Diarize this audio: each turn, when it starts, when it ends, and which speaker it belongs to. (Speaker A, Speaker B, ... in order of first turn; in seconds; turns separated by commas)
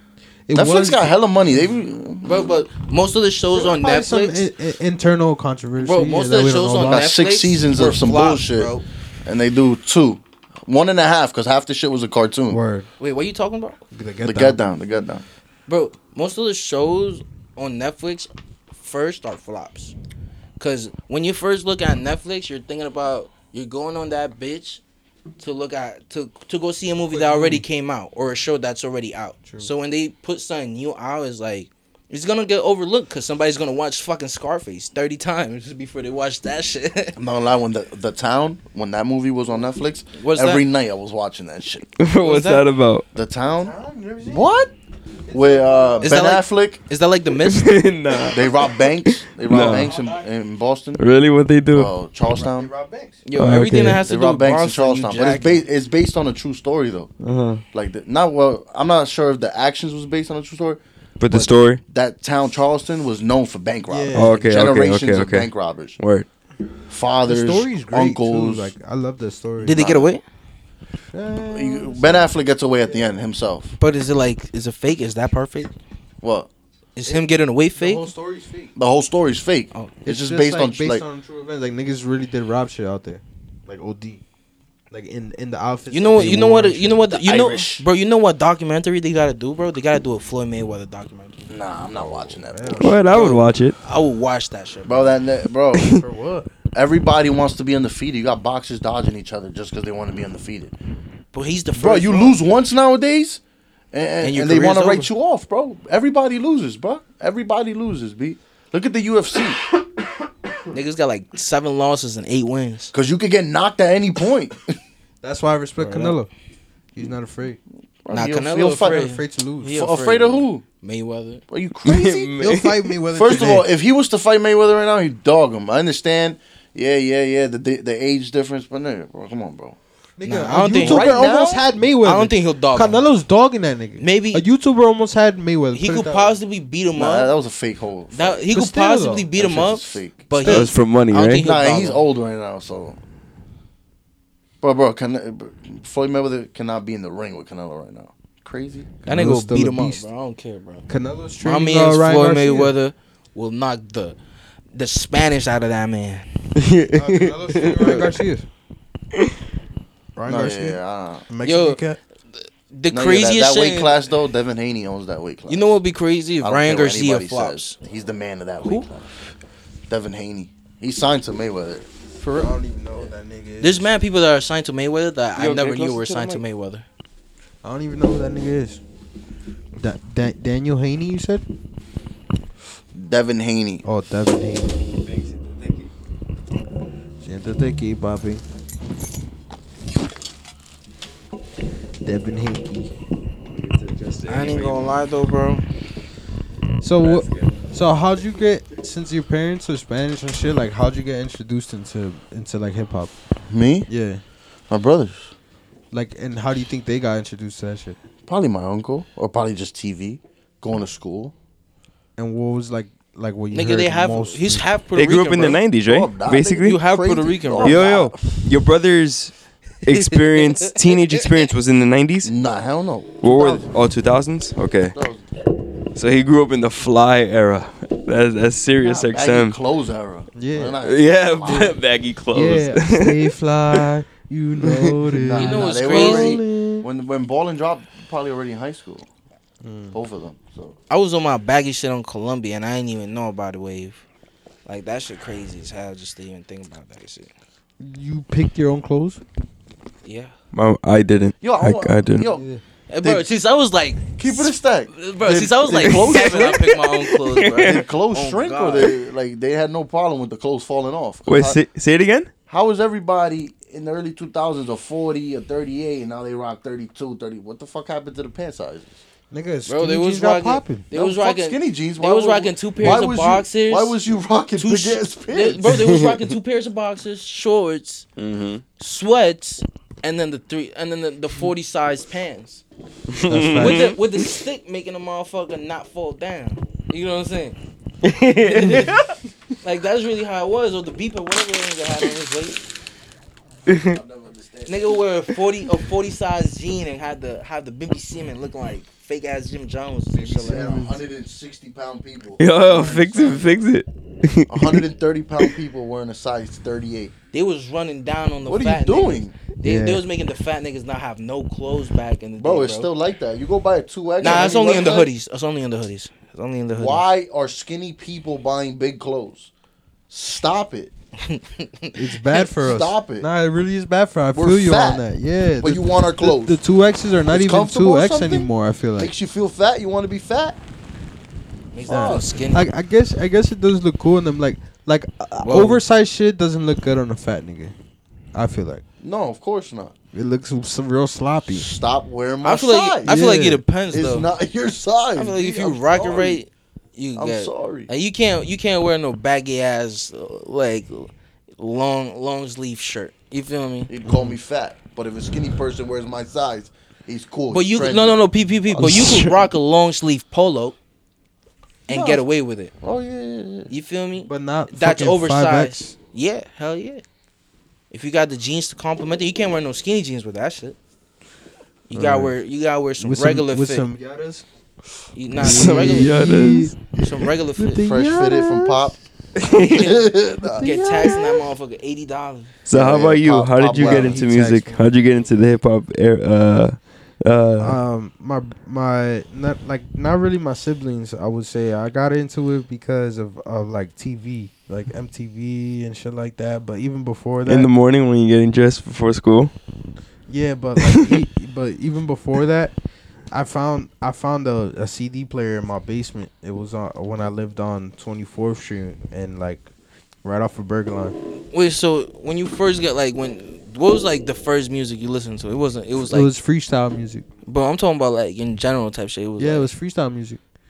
Speaker A: 0.5-1.1, Speaker B: 0.5-2.6, Speaker C: 2.2-4.5, Speaker A: 3.5-7.0, Speaker C: 5.8-8.8, Speaker B: 6.9-8.7, Speaker B: 9.3-12.6, Speaker A: 12.5-12.9, Speaker C: 13.0-13.8, Speaker A: 13.9-14.6, Speaker B: 14.2-15.2, Speaker C: 15.7-19.9, Speaker C: 20.6-24.8, Speaker C: 25.4-37.2, Speaker A: 27.1-27.6, Speaker B: 37.2-41.9, Speaker C: 40.2-40.6, Speaker D: 42.0-43.0, Speaker C: 42.2-42.6, Speaker B: 43.1-43.7, Speaker A: 43.6-44.5, Speaker B: 44.3-44.7, Speaker A: 45.3-46.2, Speaker B: 45.3-46.8, Speaker C: 46.0-47.8, Speaker D: 47.4-49.9, Speaker B: 48.3-51.0, Speaker A: 49.5-50.0, Speaker D: 51.0-51.9, Speaker B: 51.7-52.7, Speaker A: 52.3-53.2, Speaker C: 53.2-55.6, Speaker D: 53.4-54.0, Speaker B: 54.0-57.1, Speaker D: 57.2-57.6, Speaker B: 57.7-66.0, Speaker D: 61.2-61.8, Speaker A: 63.9-64.4, Speaker D: 64.1-66.3, Speaker B: 66.9-68.7, Speaker A: 67.3-69.8, Speaker C: 69.6-70.2, Speaker B: 69.8-70.1, Speaker A: 71.1-72.3, Speaker B: 71.5-73.7, Speaker C: 73.8-75.7, Speaker B: 76.2-76.5, Speaker C: 77.0-78.1, Speaker A: 77.8-78.7, Speaker B: 78.8-81.0, Speaker A: 80.0-84.2, Speaker A: 84.9-87.0, Speaker C: 85.9-91.4, Speaker B: 87.1-87.8, Speaker B: 91.5-93.0, Speaker A: 92.0-92.9, Speaker D: 92.8-93.8, Speaker C: 93.1-95.1, Speaker B: 94.8-96.0, Speaker A: 95.8-96.5, Speaker B: 96.7-100.8, Speaker C: 101.3-102.4, Speaker B: 101.8-103.4, Speaker B: 103.9-109.6, Speaker C: 104.2-105.1, Speaker C: 110.7-112.9, Speaker B: 112.9-114.6, Speaker A: 115.2-116.3, Speaker A: 116.9-117.6, Speaker B: 118.0-119.1, Speaker C: 118.1-121.4, Speaker A: 118.8-119.8, Speaker B: 119.7-120.6, Speaker B: 121.5-122.3, Speaker D: 121.8-122.9, Speaker A: 122.4-123.7, Speaker B: 123.1-129.8, Speaker A: 130.2-136.3, Speaker C: 130.2-131.2, Speaker B: 130.8-131.7, Speaker C: 132.0-133.0, Speaker C: 134.0-134.4, Speaker C: 135.7-137.3, Speaker B: 137.0-138.5, Speaker C: 138.1-142.0, Speaker A: 138.5-139.3, Speaker B: 139.4-140.7, Speaker D: 140.4-141.4, Speaker B: 141.4-143.0, Speaker B: 144.6-148.9, Speaker A: 149.1-150.0, Speaker C: 149.1-150.8, Speaker A: 150.9-152.7, Speaker C: 151.4-154.2, Speaker C: 154.7-156.3, Speaker D: 156.6-158.1, Speaker A: 156.9-158.5, Speaker C: 157.8-158.1, Speaker A: 160.2-162.0, Speaker B: 160.2-161.3, Speaker C: 161.4-161.8, Speaker C: 162.7-164.0, Speaker B: 162.9-165.8, Speaker C: 165.5-167.8, Speaker B: 166.4-169.1, Speaker B: 169.9-171.9, Speaker A: 172.3-173.9, Speaker C: 173.6-176.8, Speaker D: 175.4-176.4, Speaker A: 177.6-178.8, Speaker A: 179.8-181.4, Speaker B: 182.9-183.8, Speaker A: 183.8-184.8, Speaker D: 185.0-185.9, Speaker A: 187.2-188.4, Speaker A: 192.0-192.9, Speaker D: 193.5-195.0, Speaker C: 194.3-195.6, Speaker A: 196.8-203.1, Speaker D: 197.0-197.6, Speaker B: 203.5-203.9, Speaker A: 203.9-204.2, Speaker B: 204.7-205.3, Speaker A: 205.9-208.0, Speaker B: 208.3-211.3, Speaker A: 212.2-214.7, Speaker C: 213.5-215.6, Speaker D: 214.9-216.8, Speaker B: 215.8-218.3, Speaker C: 216.6-218.1, Speaker D: 217.6-219.3, Speaker D: 219.8-222.3, Speaker C: 219.9-221.2, Speaker B: 222.2-223.7, Speaker D: 223.2-225.0, Speaker B: 224.9-225.2, Speaker D: 225.9-229.6, Speaker B: 228.8-231.8, Speaker A: 230.4-230.8, Speaker D: 230.8-233.9, Speaker A: 232.3-236.9, Speaker D: 234.6-235.0, Speaker B: 235.2-239.1, Speaker C: 235.4-236.4, Speaker A: 239.6-240.0, Speaker B: 239.9-240.8, Speaker C: 240.9-244.0, Speaker C: 244.7-247.3, Speaker A: 247.8-249.2, Speaker C: 250.0-250.3, Speaker D: 250.5-252.3, Speaker B: 251.4-252.4, Speaker A: 252.3-252.6, Speaker C: 252.9-258.9, Speaker B: 254.2-256.7, Speaker D: 255.8-257.8, Speaker B: 257.6-261.6, Speaker D: 261.3-262.3, Speaker B: 262.5-269.0, Speaker A: 269.3-270.9, Speaker C: 269.7-274.0, Speaker B: 270.9-275.8, Speaker C: 274.6-278.1, Speaker D: 275.7-276.3, Speaker D: 278.2-278.6, Speaker C: 278.8-282.6, Speaker D: 283.1-284.0, Speaker A: 283.3-283.9, Speaker C: 283.6-287.6, Speaker D: 288.0-289.1, Speaker C: 288.4-289.1, Speaker C: 289.6-292.6, Speaker D: 293.7-294.0, Speaker B: 293.9-295.0, Speaker C: 294.7-300.8, Speaker B: 300.1-303.4, Speaker A: 300.4-301.0, Speaker D: 302.4-304.9, Speaker B: 304.5-307.1, Speaker C: 307.3-312.9, Speaker B: 308.5-309.4, Speaker A: 309.6-310.0, Speaker B: 312.4-315.1, Speaker C: 314.2-317.0, Speaker B: 316.8-319.5, Speaker B: 320.1-320.9, Speaker C: 321.3-322.0, Speaker A: 322.0-329.1, Speaker B: 322.6-323.3, Speaker B: 324.3-325.1, Speaker B: 325.6-326.6, Speaker B: 327.3-330.6, Speaker C: 331.7-332.7, Speaker B: 331.9-332.4, Speaker A: 331.9-337.8, Speaker C: 335.4-335.8, Speaker A: 338.3-338.8, Speaker B: 339.0-339.9, Speaker A: 340.1-341.7, Speaker B: 341.5-343.2, Speaker C: 342.4-344.3, Speaker A: 343.1-343.6, Speaker B: 343.9-346.4, Speaker C: 345.2-353.9, Speaker B: 347.2-347.9, Speaker B: 353.9-359.3, Speaker A: 354.1-354.4, Speaker C: 357.5-360.8, Speaker D: 358.8-359.1, Speaker C: 361.9-362.7, Speaker B: 361.9-362.2, Speaker B: 362.8-363.7, Speaker C: 363.7-367.0, Speaker A: 364.3-365.9, Speaker C: 367.9-370.8, Speaker C: 371.9-373.8, Speaker A: 371.9-372.4, Speaker A: 373.0-374.4, Speaker C: 375.1-376.2, Speaker A: 375.3-377.1, Speaker D: 375.4-376.7, Speaker C: 376.9-377.9, Speaker A: 377.6-378.8, Speaker B: 377.7-379.0, Speaker D: 379.4-380.0, Speaker B: 379.7-381.2, Speaker A: 380.4-381.4, Speaker C: 380.6-382.5, Speaker D: 382.6-387.8, Speaker B: 382.7-384.2, Speaker A: 383.8-384.9, Speaker A: 387.6-397.7, Speaker D: 397.4-399.5, Speaker A: 400.3-402.7, Speaker A: 403.3-409.7, Speaker A: 410.2-411.2, Speaker C: 411.5-416.3, Speaker A: 416.0-417.2, Speaker C: 417.5-419.7, Speaker A: 419.4-420.4